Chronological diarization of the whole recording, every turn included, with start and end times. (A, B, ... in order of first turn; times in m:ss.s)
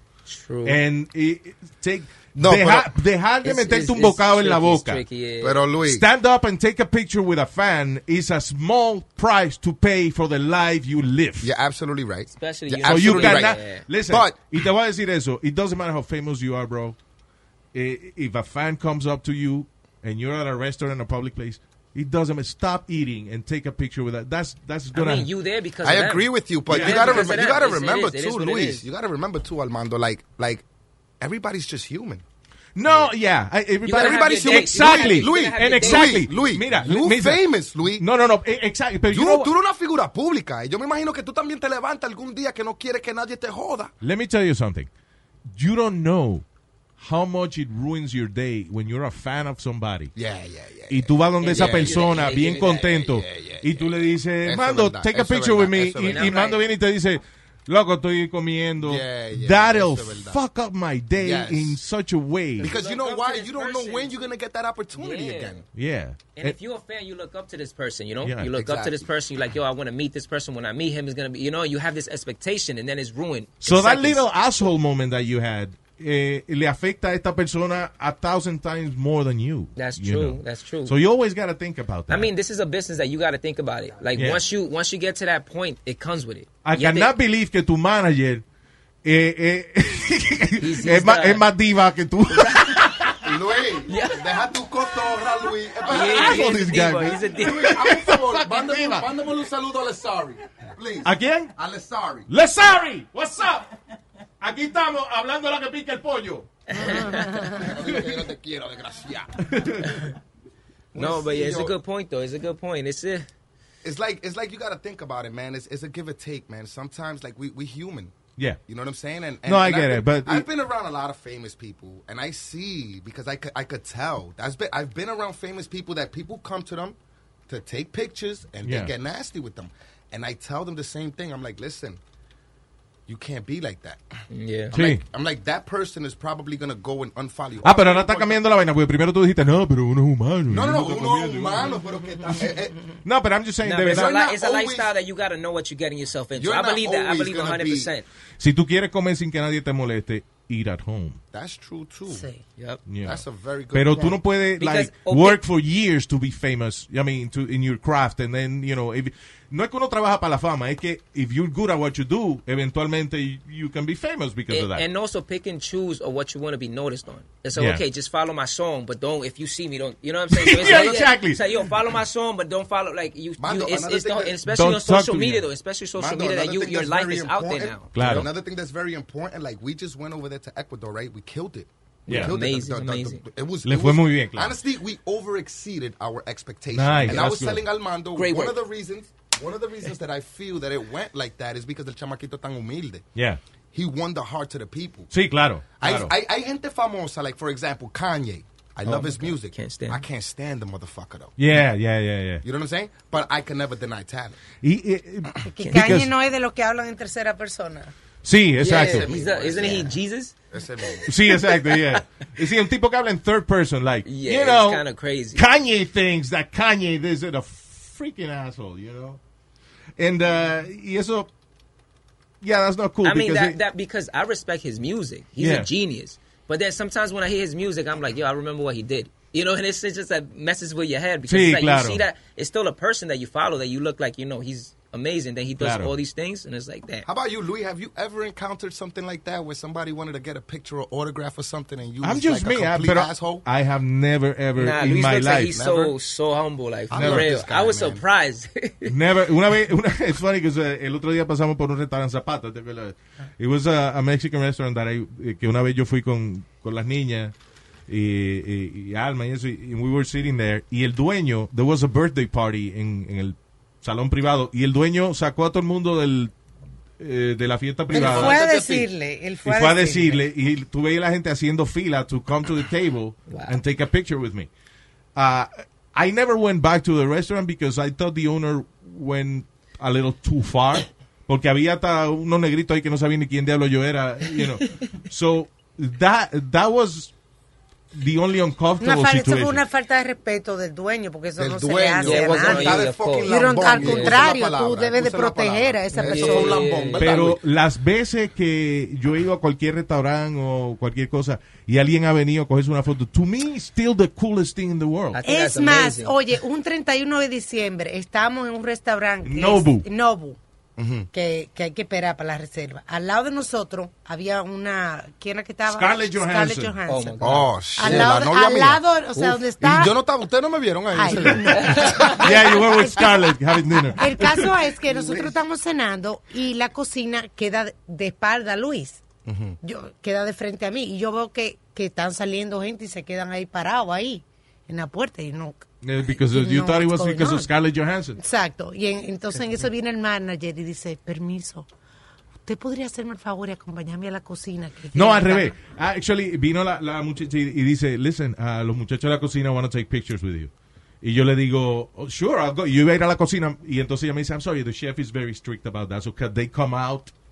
0:00.3-0:00.8 A
0:00.6-0:05.0 B
0:02.3-0:02.9 C
0:03.4-0:05.6 A
0:05.4-0:06.0 C
0:05.8-0:11.5 B
0:11.4-0:14.4 C
0:12.3-0:13.8 A
0:12.8-0:17.0 B
0:17.7-0:25.3 B
0:24.9-0:28.8 A
0:25.8-0:30.6 C
0:26.7-0:27.4 B
0:31.2-0:32.2 C
0:32.8-0:39.5 B
0:33.8-0:36.2 A
0:33.8-0:38.0 C
0:39.1-0:43.9 C
0:44.0-0:44.9 B
0:45.5-0:46.4 B
0:47.0-0:50.1 B
0:50.1-0:56.4 C
0:50.9-1:02.7 B
0:51.4-0:53.0 A
0:56.0-0:56.6 A
0:58.8-1:00.4 C
1:01.2-1:01.8 C
1:02.6-1:05.6 C
1:02.6-1:04.1 A
1:05.0-1:05.6 A
1:05.7-1:06.6 B
1:06.4-1:14.2 A
1:08.2-1:08.5 B
1:08.5-1:09.1 C
1:13.6-1:22.3 B
1:19.8-1:20.9 A
1:22.1-1:27.1 A
1:24.2-1:24.4 B
1:26.6-1:28.4 B
1:29.0-1:33.3 B
1:30.6-1:31.4 A
1:32.3-1:33.1 A
1:33.2-1:36.6 C
1:33.9-1:34.3 A
1:35.9-1:39.1 B
1:35.9-1:37.8 A
1:37.4-1:42.3 C
1:41.0-1:41.5 B
1:42.3-1:43.7 B
1:44.4-1:46.5 B
1:46.7-1:47.6 A
1:46.8-1:47.6 D
1:47.5-1:49.5 C
1:49.4-1:50.1 B
1:50.9-1:51.7 C
1:50.9-1:53.3 A
1:53.8-2:07.0 C
1:59.4-2:00.5 B
2:07.5-2:12.0 C
2:08.6-2:08.9 B
2:13.1-2:14.0 C
2:14.3-2:14.7 A
2:14.7-2:18.4 C
2:14.7-2:15.0 B
2:17.6-2:21.8 B
2:20.5-2:22.8 C
2:23.0-2:24.1 B
2:23.6-2:28.0 A
2:23.8-2:24.9 C
2:26.4-2:27.9 C
2:28.4-2:31.2 B
2:31.3-2:32.3 C
2:32.1-2:32.4 D
2:32.6-2:32.8 A
2:32.8-2:33.2 B
2:33.0-2:34.2 C
2:33.7-2:44.8 B
2:34.6-2:35.4 A
2:44.5-2:58.2 A
2:47.5-2:47.8 B
2:50.3-2:51.8 B
2:53.4-2:54.4 C
2:54.5-2:55.5 B
2:56.0-3:13.0 C
2:57.9-2:58.3 B
3:02.1-3:03.2 A
3:02.1-3:02.3 B
3:03.6-3:04.6 B
3:06.7-3:07.6 B
3:08.1-3:08.6 A
3:13.7-3:15.1 C
3:15.1-3:16.1 B
3:15.8-3:21.3 C
3:18.8-3:20.0 A
3:21.4-3:22.4 B
3:22.4-3:24.4 C
3:24.6-3:26.1 B
3:25.4-3:27.9 D
3:28.2-3:29.1 B
3:28.6-3:30.3 A
3:28.6-3:29.9 C
3:30.5-3:31.2 C
3:31.0-3:39.2 B
3:31.6-3:32.0 A
3:34.0-3:35.4 A
3:40.0-3:41.3 B
3:42.4-3:43.6 B
3:43.0-3:57.1 A
3:45.4-3:45.7 B
3:51.3-3:52.0 B
3:55.6-3:55.9 B
3:57.0-4:03.4 C
4:02.0-4:05.6 B
4:04.6-4:08.9 A
4:05.5-4:05.9 C
4:06.9-4:08.0 C
4:06.9-4:07.3 B
4:08.9-4:17.3 B
4:17.9-4:26.3 B
4:27.0-4:28.4 B
4:27.9-4:30.2 D
4:27.9-4:28.9 A
4:29.4-4:34.5 B
4:33.3-4:33.6 A
4:35.2-4:47.1 B
4:47.9-4:49.6 B
4:48.8-4:56.7 D
4:51.4-4:57.4 C
4:52.0-4:54.3 A
4:55.9-4:57.2 A
4:57.0-5:05.2 B
5:05.1-5:06.2 A
5:05.2-5:10.4 D
5:09.2-5:09.8 B
5:10.8-5:11.1 C
5:11.1-5:19.9 D
5:15.7-5:16.7 B
5:16.9-5:18.1 A
5:17.2-5:22.3 C
5:20.9-5:29.0 D
5:21.5-5:22.2 A
5:22.2-5:24.5 B
5:24.9-5:25.3 C
5:29.2-5:29.6 C
5:29.6-5:37.5 D
5:35.8-5:38.2 B
5:38.2-5:41.7 D
5:42.4-5:45.5 D
5:44.9-5:50.5 B
5:51.0-5:57.1 B